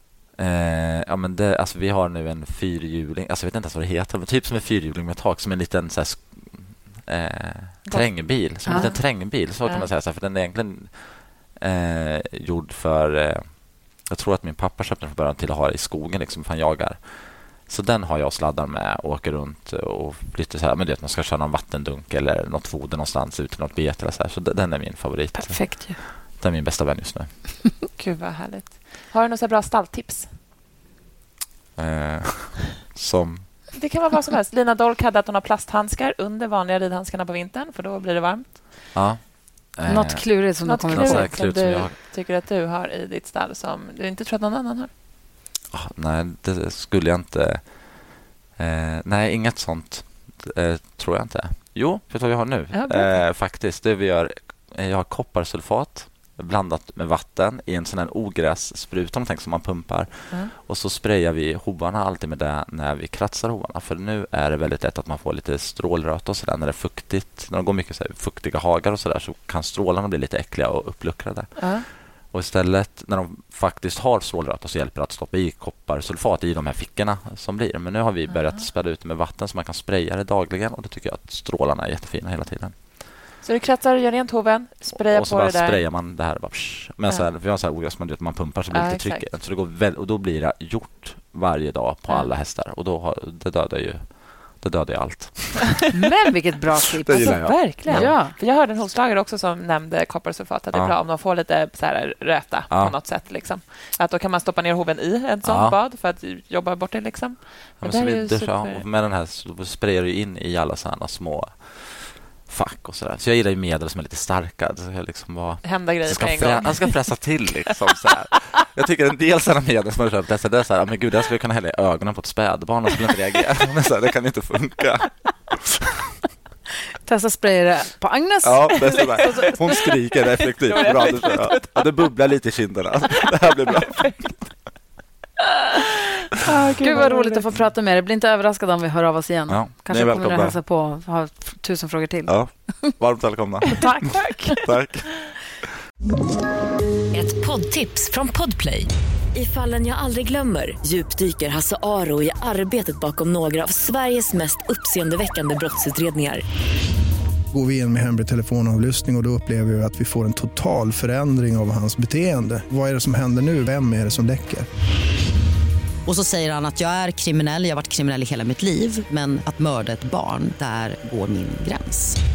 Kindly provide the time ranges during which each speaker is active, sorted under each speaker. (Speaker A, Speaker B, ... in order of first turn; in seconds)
Speaker A: 0.4-27.6, 31.8-33.7, 38.9-41.9, 45.7-82.8, 84.9-95.8, 97.0-98.2, 102.7-103.0, 105.4-105.8, 107.8-125.9, 128.4-134.3, 136.7-137.6, 139.5-140.6, 142.3-145.3
Speaker B: 7.9-9.9, 27.9-30.4, 33.7-38.9, 40.6-44.9, 52.7-53.1, 71.6-71.8, 78.3-78.6, 83.4-85.8, 88.7-89.2, 97.1-108.8, 115.6-117.7, 129.0-129.6, 130.6-131.9, 133.8-134.2, 136.4-137.5, 143.7-144.6
Speaker C: 25.3-26.0, 39.9-41.3, 95.9-98.3, 127.0-129.5, 136.8-142.9
Speaker D: 147.1-156.4
Speaker E: 157.5-164.7
Speaker F: 166.1-172.2